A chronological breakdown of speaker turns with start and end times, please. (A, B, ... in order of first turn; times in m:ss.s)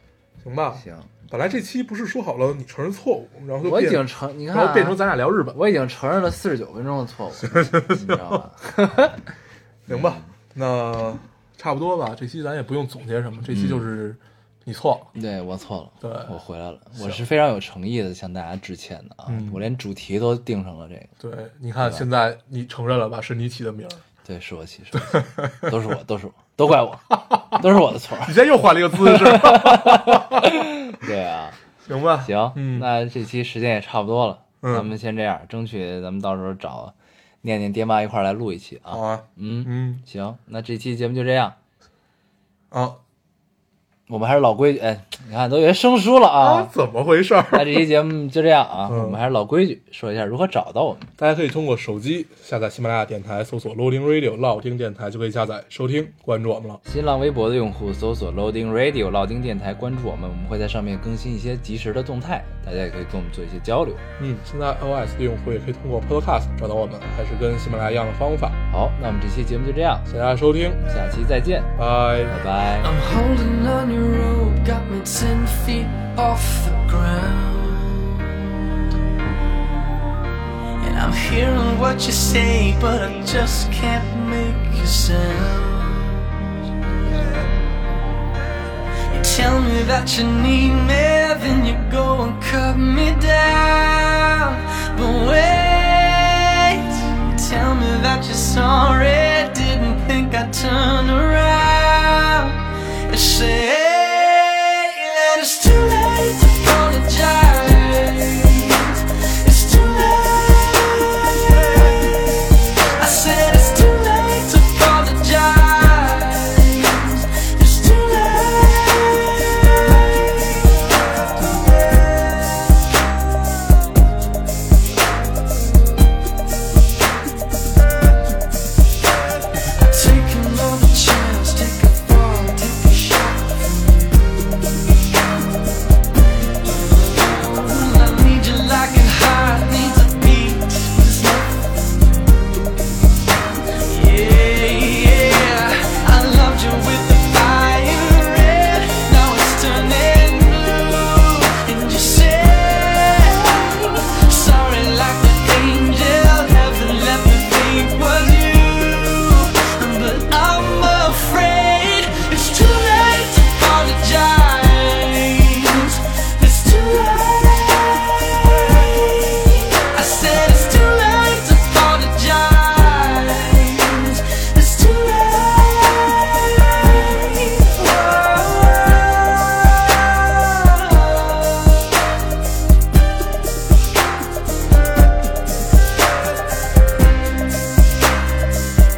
0:00.4-0:05.6 A
0:00.7-0:01.2 B
0:03.6-0:09.2 B
0:07.4-0:08.4 A
0:09.9-0:15.1 A
0:09.9-0:10.3 B
0:13.5-0:13.9 B
0:15.1-0:21.1 B
0:16.0-0:16.3 A
0:19.3-0:19.6 A
0:21.2-0:24.0 A
0:21.8-0:22.0 B
0:24.2-0:28.4 B
0:25.0-0:25.7 A
0:27.2-0:27.6 A
0:28.2-0:30.5 A
0:28.9-0:31.6 B
0:31.8-0:32.9 A
0:32.2-0:41.6 B
0:34.6-0:34.9 A
0:38.9-0:40.0 A
0:42.7-0:43.0 A
0:44.1-0:46.7 B
0:46.4-0:47.9 A
0:47.5-0:51.1 B
0:48.9-0:49.2 A
0:51.2-0:56.8 A
0:56.8-1:04.0 B
1:04.2-1:08.6 A
1:08.7-1:10.1 B
1:10.1-1:10.8 A
1:10.8-1:11.8 B
1:11.8-1:12.4 A
1:12.3-1:12.9 B
1:12.8-1:18.5 C
1:20.8-1:26.5 C
1:27.0-1:27.6 C
1:29.1-2:01.0 C
2:01.9-2:02.2 C
2:09.8-2:14.3 C
2:16.6-2:22.2 C
2:23.8-3:02.0 C